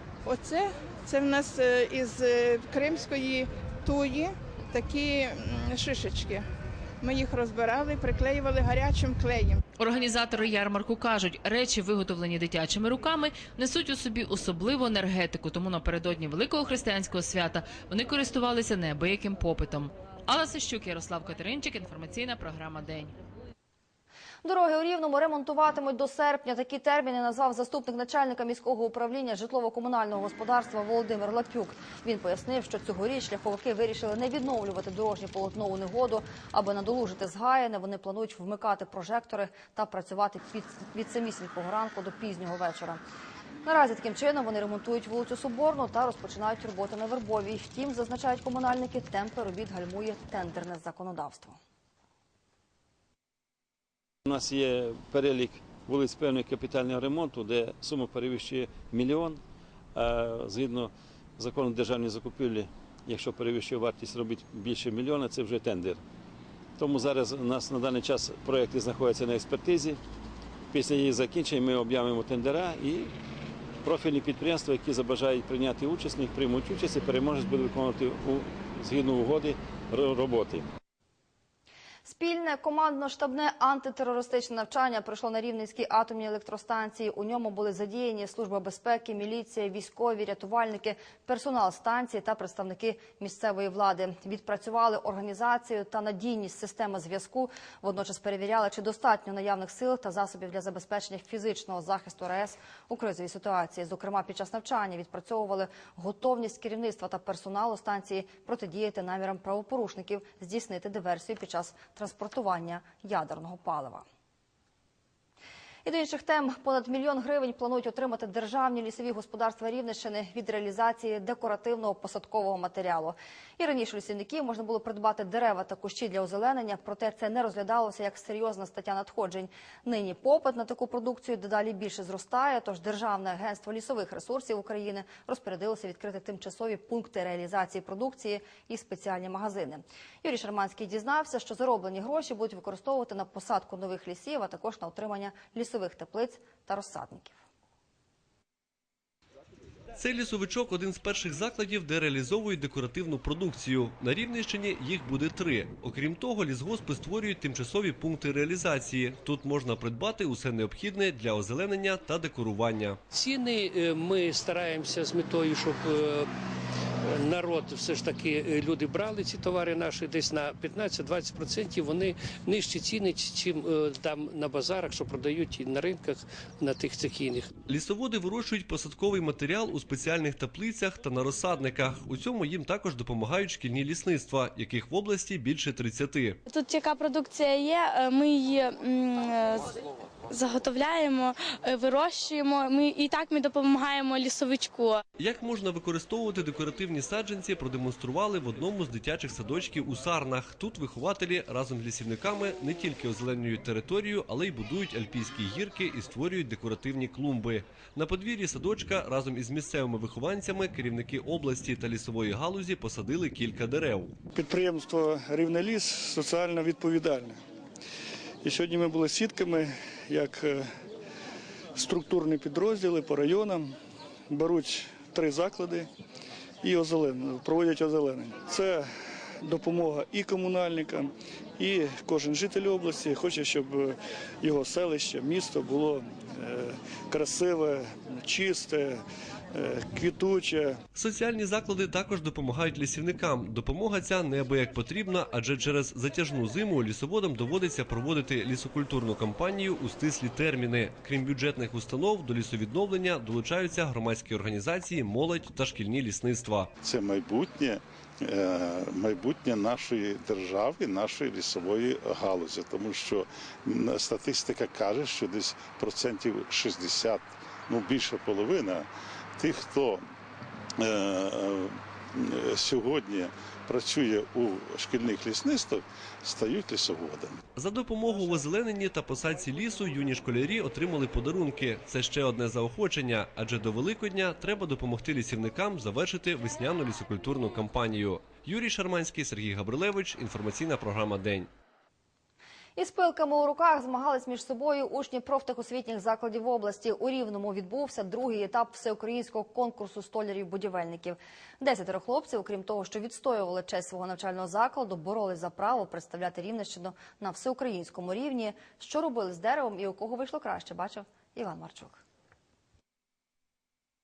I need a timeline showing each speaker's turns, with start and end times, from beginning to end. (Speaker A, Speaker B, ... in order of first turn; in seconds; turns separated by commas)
Speaker A: 0.2-6.4, Speaker A: 7.0-9.6, Speaker B: 9.8-23.1, Speaker C: 24.4-43.0, Speaker C: 43.6-51.6, Speaker D: 54.3-59.4, Speaker D: 60.0-66.0, Speaker D: 66.8-70.0, Speaker D: 70.7-73.1, Speaker D: 73.8-80.7, Speaker C: 82.1-114.0, Speaker C: 115.8-147.4, Speaker E: 149.9-163.0, Speaker F: 163.1-166.3, Speaker F: 167.1-177.5, Speaker E: 177.7-186.4, Speaker G: 190.4-191.3, Speaker G: 192.2-194.7, Speaker E: 195.2-214.1, Speaker H: 214.4-217.4, Speaker H: 218.4-220.6, Speaker H: 221.8-223.7, Speaker H: 224.3-225.9, Speaker H: 226.6-228.8, Speaker H: 229.4-233.9, Speaker H: 234.4-239.0, Speaker H: 239.6-240.7, Speaker E: 240.9-256.7, Speaker I: 256.8-268.9, Speaker I: 269.4-270.0, Speaker I: 270.8-277.4, Speaker E: 277.6-291.5, Speaker C: 292.8-312.0